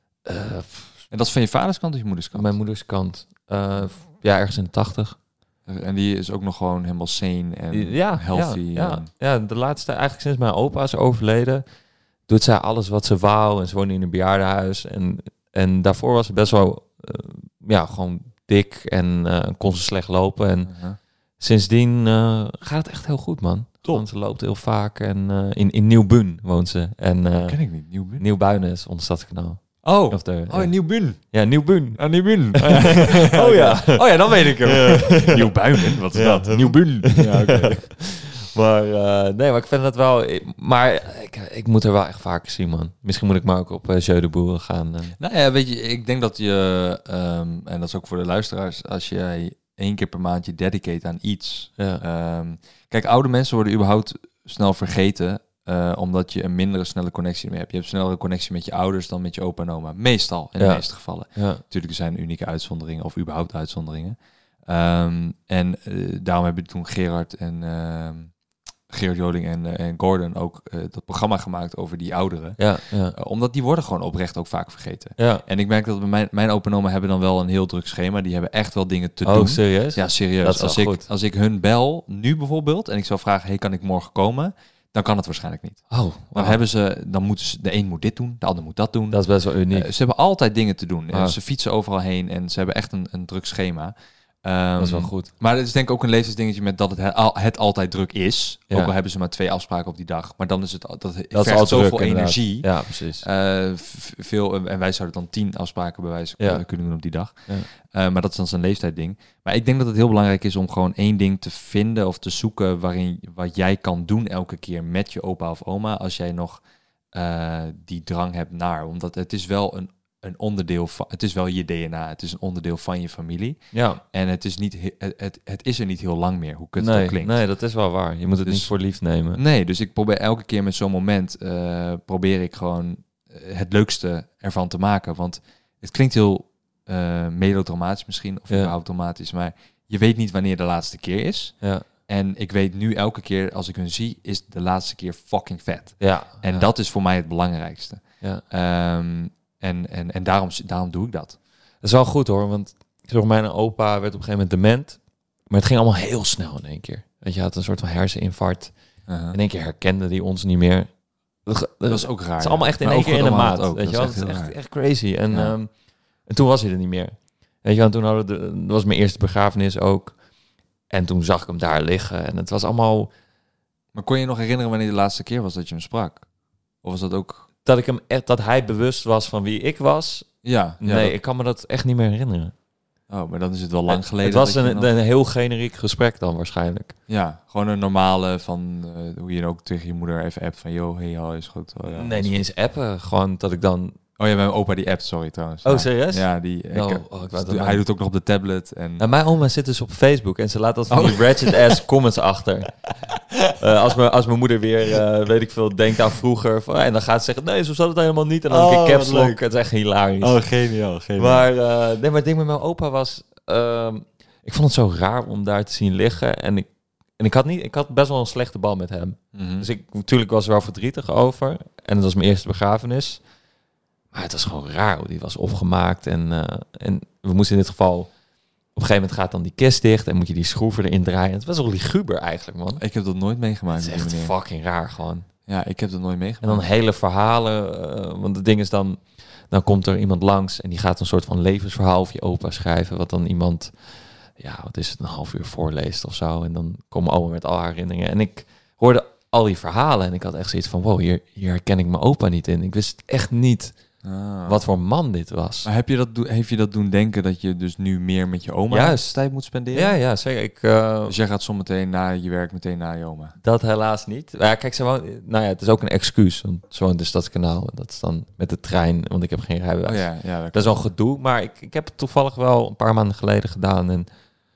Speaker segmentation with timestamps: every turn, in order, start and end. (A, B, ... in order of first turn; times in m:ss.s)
0:00.2-0:01.0 A
0:01.1-0:02.6 B
0:02.3-0:05.2 A
0:05.6-0:09.1 B
0:07.7-0:11.6 A
0:12.3-0:20.7 A
0:20.7-0:21.0 B
0:21.4-0:27.6 A
0:27.4-0:28.2 B
0:28.2-0:45.2 A
0:29.8-0:31.4 B
0:32.0-0:37.8 B
0:45.2-1:08.3 B
0:51.8-0:52.0 A
1:00.6-1:01.6 A
1:08.9-1:12.6 B
1:12.6-1:13.2 A
1:13.1-1:56.6 B
1:15.2-1:15.4 A
1:19.2-1:21.0 A
1:25.9-1:26.6 A
1:29.1-1:29.9 A
1:31.1-1:31.4 A
1:34.8-1:35.3 A
1:41.3-1:43.2 A
1:46.4-1:46.6 A
1:57.1-2:07.4 B
2:03.7-2:04.0 A
2:06.8-2:09.4 A
2:08.4-2:08.7 B
2:09.3-2:31.4 B
2:18.5-2:18.7 A
2:26.0-2:26.7 A
2:31.8-2:35.0 A
2:35.5-2:38.7 A
2:39.1-2:39.4 B
2:39.3-2:40.9 A
2:41.4-2:45.7 A
2:41.9-2:44.6 B
2:45.3-2:45.6 B
2:46.2-2:50.2 A
2:50.9-2:53.1 A
2:53.9-2:56.2 B
2:56.8-2:57.4 B
2:57.6-3:02.5 A
3:00.4-3:01.2 B
3:03.1-3:04.9 B
3:03.9-3:07.0 A
3:07.1-3:12.3 B
3:11.9-3:14.0 A
3:14.2-3:19.0 B
3:15.6-3:17.8 A
3:19.0-3:22.7 A
3:20.9-3:21.8 B
3:23.1-3:23.6 B
3:23.6-3:30.4 A
3:28.5-3:29.4 B
3:30.2-3:31.5 B
3:31.2-3:36.7 A
3:37.2-3:43.2 A
3:39.3-3:39.7 B
3:44.1-3:48.1 A
3:48.7-3:52.8 A
3:52.8-3:54.3 B
3:53.7-3:55.2 A
3:55.5-3:56.6 B
3:56.4-4:13.8 A
4:14.0-4:14.6 B
4:14.4-4:15.7 A
4:15.6-4:20.0 B
4:18.7-4:19.2 A
4:19.7-4:21.2 A
4:21.1-4:23.3 B
4:23.4-4:34.1 A
4:29.8-4:30.8 B